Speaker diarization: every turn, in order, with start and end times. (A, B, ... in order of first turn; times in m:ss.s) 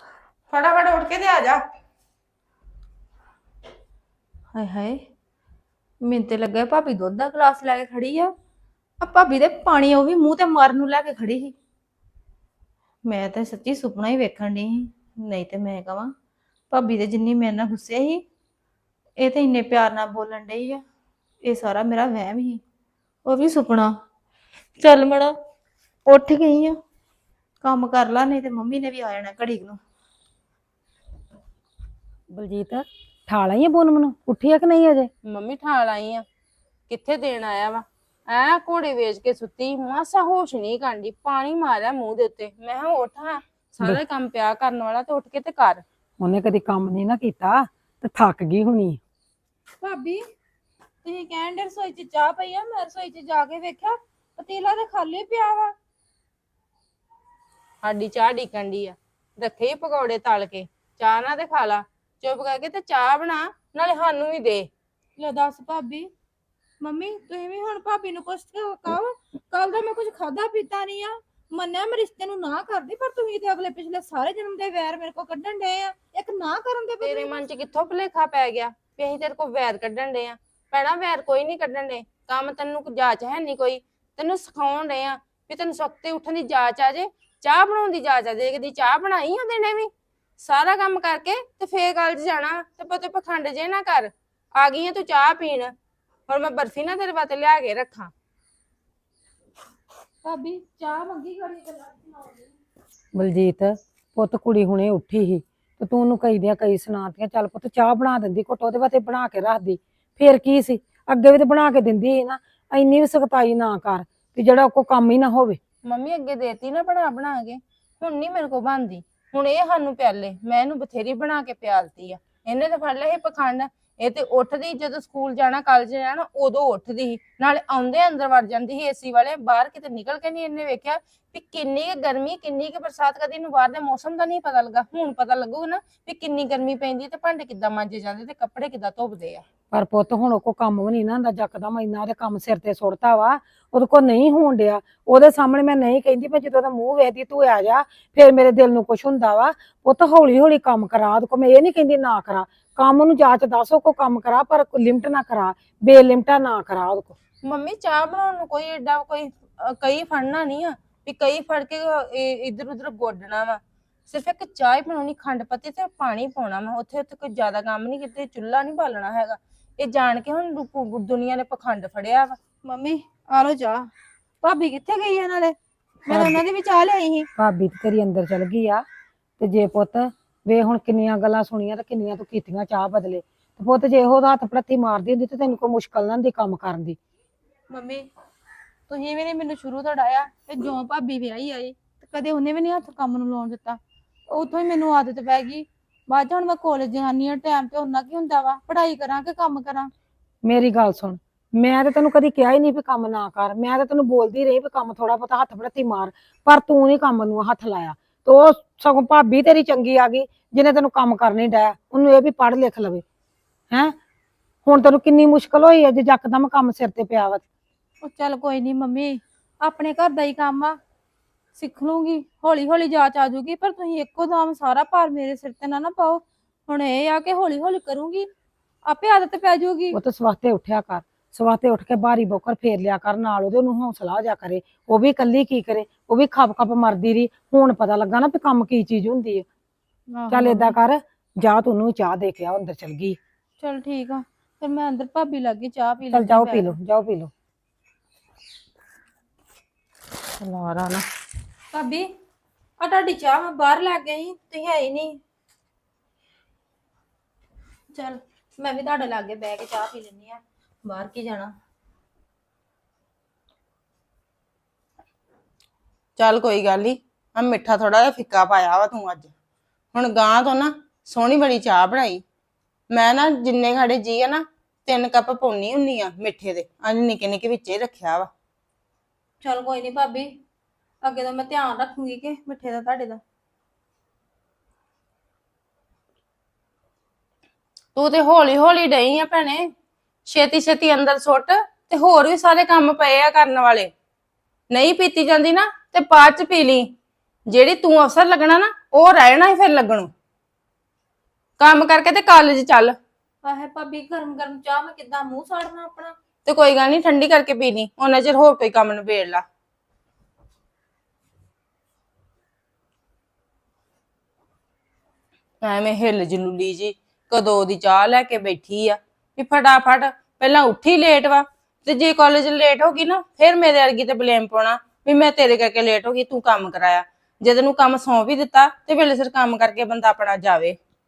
0:00.5-0:01.6 A
0:04.5-0:05.0 B
0:06.0-0:08.3 B
0:09.0-0:11.5 B
0:13.1-0:16.1 B
0:16.7-0:18.2 B
0:19.2-0:20.8 B
0:21.4-0:22.6 B
0:23.2-0:23.9 B
0:24.8-0:25.4 B
0:26.1-0:26.8 B
0:27.6-0:29.8 B
0:32.3-0:35.1 C
0:35.2-0:36.2 A
0:36.9-0:45.8 A
0:46.2-0:49.0 C
0:49.8-0:50.2 B
0:51.0-0:55.7 B
0:57.8-1:04.7 A
1:05.2-1:06.1 B
1:06.8-1:17.4 B
1:17.0-1:35.7 A
1:36.3-1:38.1 A
1:40.2-1:42.5 B
1:43.2-1:55.6 C
1:55.8-2:19.4 A
2:19.7-2:37.2 C
2:37.4-2:52.4 A
2:52.6-2:53.9 B
2:54.4-2:57.3 B
2:56.1-2:56.4 C
2:57.4-2:58.8 C
2:59.4-3:07.0 C
3:07.7-3:08.1 B
3:08.9-3:19.9 B
3:20.4-3:33.0 C
3:34.7-3:37.4 C
3:38.0-3:40.8 B
3:41.6-3:48.3 B
3:48.9-3:50.0 B
3:49.9-3:59.4 C
4:00.1-4:00.8 B
4:00.3-4:03.2 C
4:03.6-4:06.8 B
4:06.1-4:07.3 C
4:10.4-4:10.9 C
4:11.7-4:12.1 B
4:12.8-4:15.2 B
4:17.9-4:21.5 B
4:26.2-4:29.3 A
4:29.9-4:32.2 A
4:32.9-4:38.3 A
4:39.4-4:40.3 B
4:41.0-4:43.2 B
4:48.0-4:49.7 A
4:50.3-4:53.9 A
4:54.7-4:56.9 A
4:57.5-5:00.1 A
5:01.6-5:03.0 A
5:03.4-5:06.1 B
5:06.4-5:09.4 A
5:15.6-5:30.8 A